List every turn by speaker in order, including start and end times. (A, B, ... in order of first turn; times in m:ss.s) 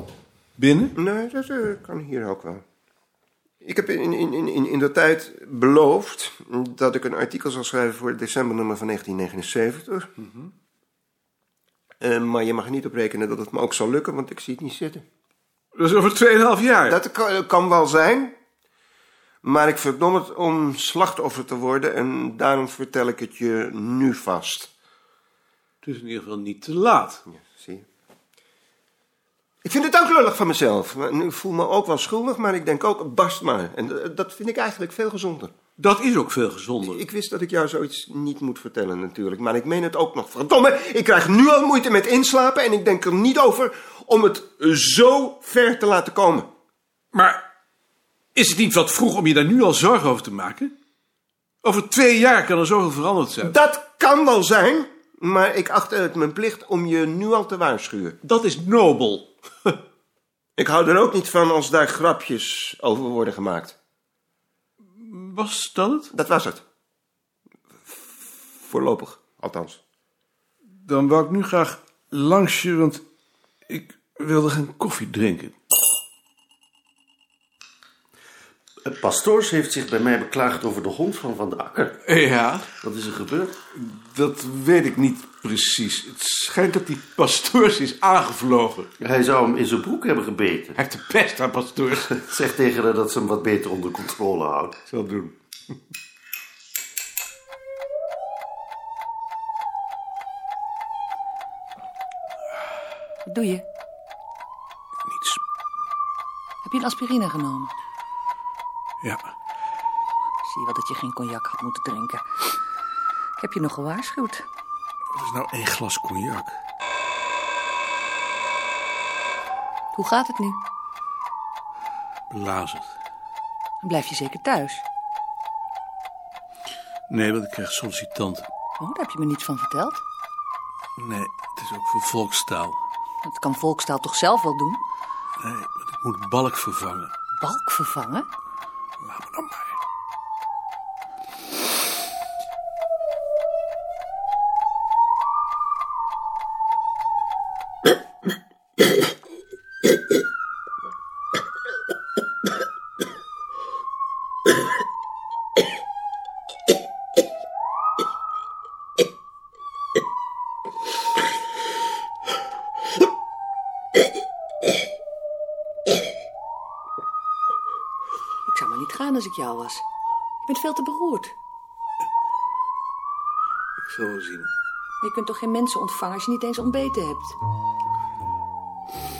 0:00.6-0:00.9 A
0:00.9-0:02.6 B
0:03.6-0:10.1 B
0:12.0-0:15.0 B
0:15.8-0:17.0 A
0:16.9-0:18.3 B
0:19.4-0:24.7 B
0:25.8-0:27.2 A
0:27.3-0:27.8 B
0:29.6-0:35.5 B
0:35.8-0:37.0 A
0:36.8-0:46.5 B
0:47.1-0:47.4 A
0:48.3-0:50.7 A
0:51.6-0:53.5 A
0:53.4-0:58.2 B
0:58.2-0:59.8 A
1:00.6-1:03.7 B
1:05.0-1:06.1 A
1:06.1-1:06.6 B
1:08.6-1:09.8 B
1:10.8-1:13.0 A
1:13.7-1:15.5 A
1:18.8-1:22.0 C
1:22.0-1:22.7 A
1:22.8-1:23.6 C
1:23.7-1:28.9 A
1:29.0-1:30.8 C
1:30.8-1:32.0 A
1:32.0-1:34.8 C
1:34.9-1:35.3 A
1:43.2-1:43.6 D
1:45.0-1:45.4 A
1:46.6-1:47.7 D
1:49.0-1:49.3 A
1:50.4-1:52.2 D
1:53.4-1:54.4 D
1:55.1-1:56.6 A
1:59.9-2:00.6 D
2:02.3-2:02.9 A
2:03.8-2:04.8 D
2:07.1-2:08.5 A
2:08.8-2:10.0 D
2:11.0-2:12.8 A
2:13.2-2:14.8 D
2:15.4-2:17.1 A
2:17.4-2:18.3 D
2:19.0-2:19.7 A
2:48.4-2:49.8 D
2:50.4-2:51.3 D
2:53.8-2:54.5 A
2:55.0-2:57.4 D